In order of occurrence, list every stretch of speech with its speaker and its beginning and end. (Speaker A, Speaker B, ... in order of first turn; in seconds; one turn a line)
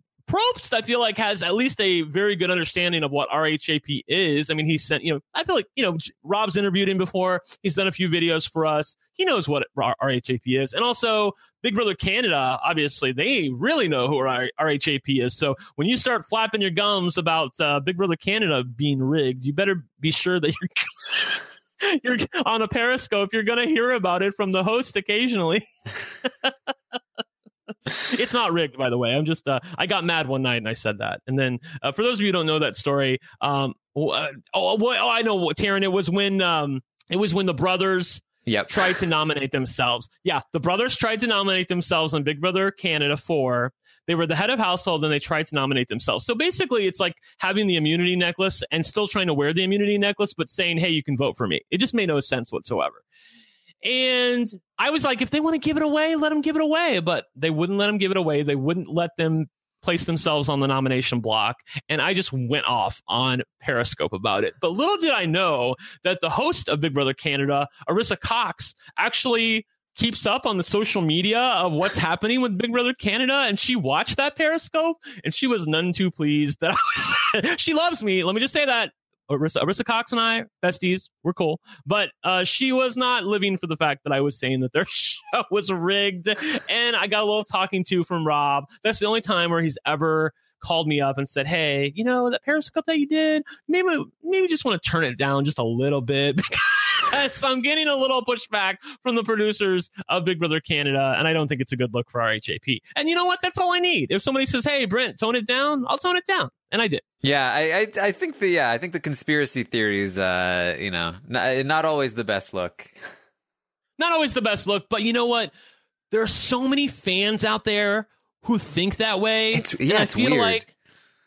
Speaker A: 0.3-25.7
Speaker A: 26.2-26.5
Speaker A: 28.0-53.0
Speaker B: 38.5-38.8
Speaker A: 53.8-107.0
Speaker B: 107.2-113.1
Speaker A: 114.0-115.5
Speaker A: 116.1-120.7
Speaker B: 119.5-120.6